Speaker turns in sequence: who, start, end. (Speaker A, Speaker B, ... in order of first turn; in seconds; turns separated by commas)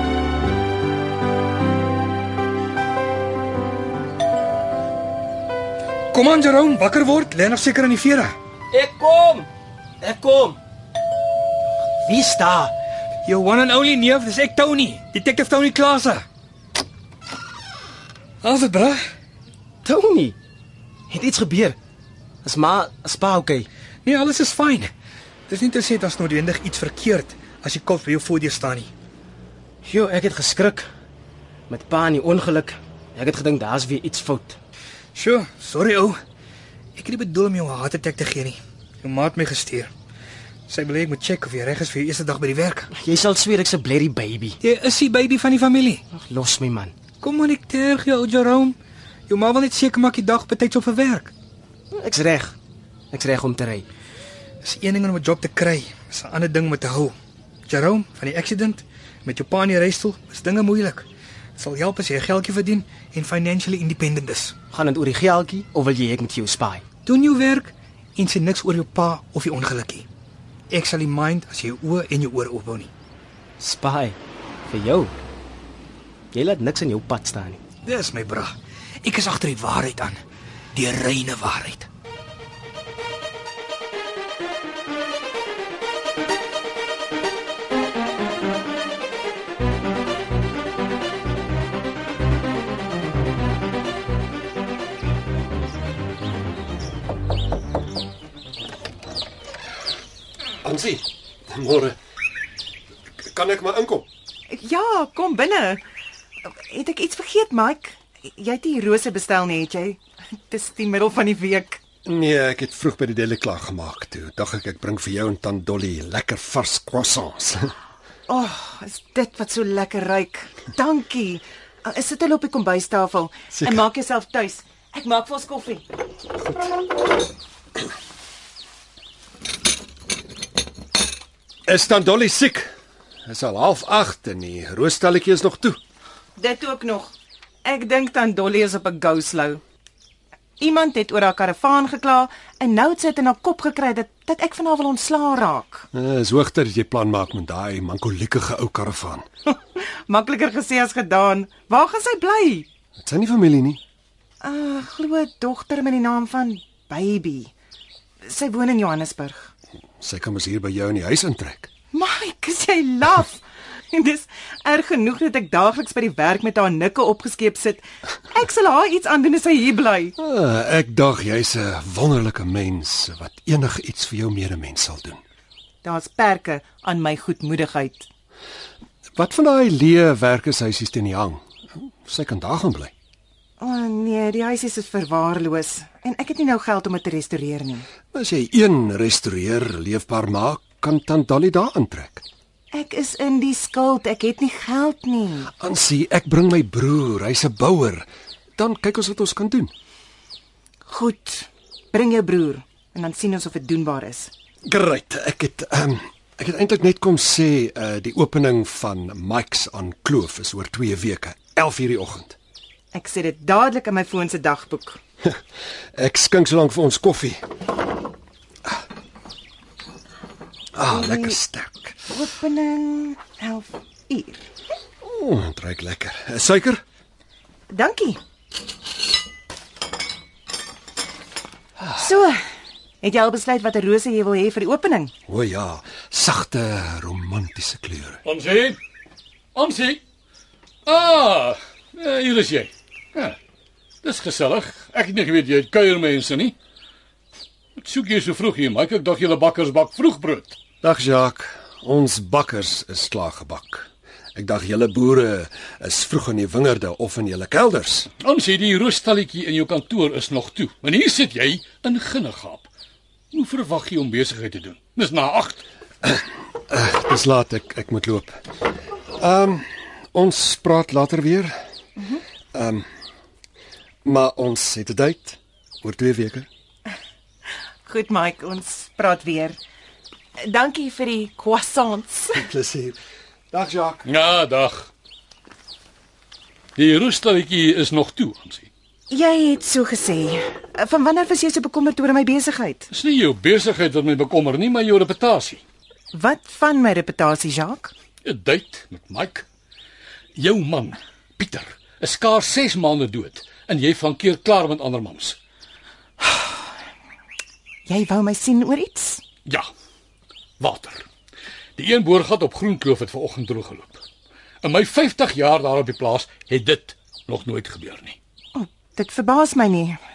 Speaker A: 6.1-8.4, Speaker B: 8.7-9.4, Speaker B: 10.0-10.6, Speaker B: 12.1-12.7, Speaker A: 13.2-16.2, Speaker A: 18.4-19.0, Speaker B: 19.9-20.4, Speaker B: 21.1-21.8, Speaker B: 22.4-23.7, Speaker A: 24.1-24.9, Speaker A: 25.5-28.9, Speaker B: 29.9-30.9, Speaker B: 31.7-34.6, Speaker A: 35.1-36.2, Speaker A: 37.0-39.9, Speaker A: 40.7-42.9, Speaker B: 43.0-44.5, Speaker A: 44.6-46.0, Speaker B: 46.2-46.9, Speaker A: 47.2-48.8, Speaker A: 49.3-51.3, Speaker B: 52.0-52.5, Speaker B: 53.1-53.9, Speaker A: 54.6-57.1, Speaker A: 57.7-64.5, Speaker B: 64.7-66.8, Speaker A: 67.1-70.1, Speaker A: 70.7-72.9, Speaker B: 73.6-74.2, Speaker B: 74.7-75.1, Speaker B: 76.3-77.6, Speaker A: 77.8-80.2, Speaker A: 80.7-81.9, Speaker C: 100.6-102.0, Speaker C: 103.2-104.1, Speaker D: 104.5-105.8, Speaker D: 106.5-111.8, Speaker C: 112.1-117.7, Speaker D: 118.3-125.8, Speaker C: 131.7-132.7, Speaker C: 133.3-135.8, Speaker D: 136.4-137.1, Speaker D: 137.6-139.6, Speaker D: 140.6-145.9, Speaker C: 145.9-149.2, Speaker D: 149.5-152.7, Speaker C: 153.0-153.8, Speaker D: 154.4-157.5, Speaker D: 158.2-159.5, Speaker C: 160.0-161.7, Speaker D: 161.9-170.2, Speaker C: 170.2-175.2, Speaker D: 175.8-178.1, Speaker C: 179.2-181.4, Speaker C: 182.1-182.9, Speaker D: 183.6-187.9, Speaker C: 188.1-192.2, Speaker D: 192.7-195.5, Speaker C: 195.6-198.1, Speaker C: 198.6-199.7, Speaker D: 200.9-204.3, Speaker C: 204.7-212.4, Speaker D: 212.9-215.0, Speaker C: 216.0-217.4, Speaker C: 220.8-222.0, Speaker D: 220.8-221.4, Speaker D: 222.1-224.4, Speaker C: 225.0-226.8, Speaker D: 227.7-228.2, Speaker D: 231.9-232.4, Speaker D: 233.0-235.1, Speaker C: 235.3-238.2, Speaker E: 238.2-238.8, Speaker E: 239.6-240.0, Speaker E: 240.9-243.4, Speaker E: 244.0-246.6, Speaker E: 247.8-250.6, Speaker C: 250.8-258.1, Speaker E: 258.2-262.7, Speaker E: 263.3-265.6, Speaker C: 266.1-268.4, Speaker C: 269.2-271.6, Speaker C: 272.5-272.9, Speaker C: 274.1-276.5, Speaker D: 277.9-279.6, Speaker D: 280.4-282.5, Speaker C: 282.4-283.0, Speaker C: 283.5-284.1, Speaker E: 284.1-284.9, Speaker E: 286.8-288.7, Speaker D: 289.1-292.9, Speaker E: 292.9-295.6, Speaker D: 296.1-297.9, Speaker E: 298.2-299.5, Speaker E: 300.4-305.4, Speaker D: 307.9-309.2, Speaker E: 310.6-311.1, Speaker E: 311.8-314.0, Speaker E: 314.6-318.2, Speaker D: 318.6-320.0